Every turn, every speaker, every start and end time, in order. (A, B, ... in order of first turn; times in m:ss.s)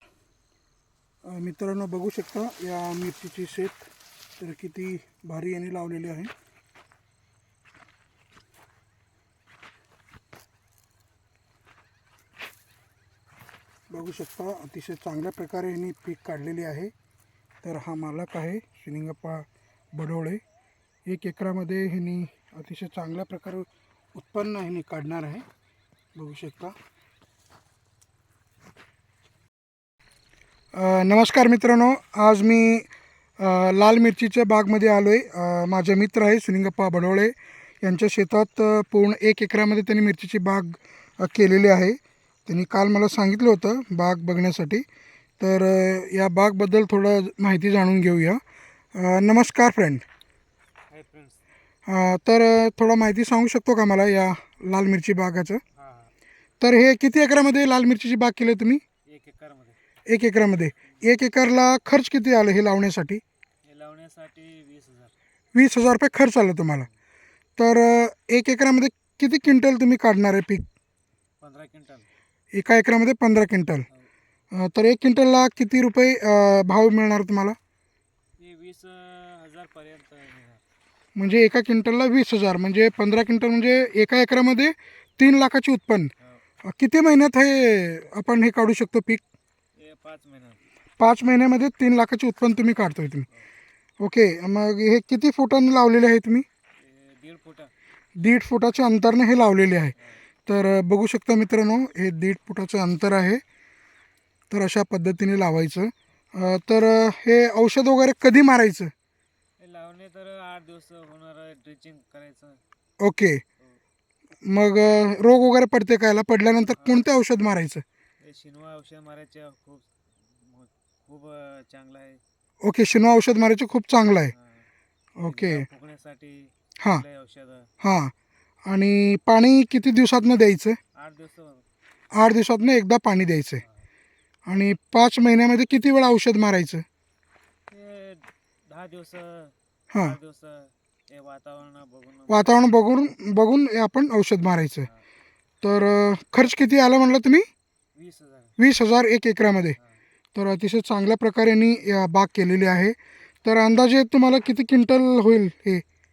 0:01.2-0:06.3 A
0:13.9-0:16.9 A
0:17.6-0:20.4 A
0:21.0-0:25.5 A
0:26.2-0:26.8 A
0:30.7-0:32.9 A
0:33.4-0:44.9 A
0:45.4-0:48.4 A
0:48.9-0:50.0 A
0:50.9-0:51.4 B
0:51.9-0:55.6 A
0:55.8-0:56.1 B
0:56.6-0:58.8 A
0:59.1-0:59.8 B
1:00.1-1:03.2 A
1:03.6-1:05.1 B
1:05.5-1:06.9 A
1:07.6-1:10.7 A
1:11.4-1:12.1 B
1:12.5-1:13.9 A
1:14.5-1:17.6 A
1:18.4-1:20.6 B
1:21.2-1:26.1 A
1:26.6-1:29.2 A
1:29.8-1:30.6 B
1:31.0-1:33.3 A
1:34.0-1:36.5 A
1:36.8-1:37.7 B
1:38.2-1:40.0 A
1:40.5-1:43.4 A
1:44.5-1:48.9 A
1:49.6-1:52.6 B
1:53.0-1:53.4 A
1:54.4-1:57.8 A
1:56.7-1:57.1 B
1:58.2-2:02.2 B
2:02.6-2:04.3 A
2:04.3-2:04.7 B
2:05.2-2:05.7 A
2:05.2-2:07.7 B
2:07.8-2:08.1 A
2:08.7-2:10.8 A
2:10.9-2:11.6 B
2:12.1-2:13.6 A
2:14.5-2:16.8 A
2:17.7-2:22.7 B
2:19.9-2:20.2 A
2:22.3-2:24.9 A
2:25.6-2:27.5 A
2:28.0-2:28.6 B
2:28.6-2:29.8 A
2:30.4-2:35.8 A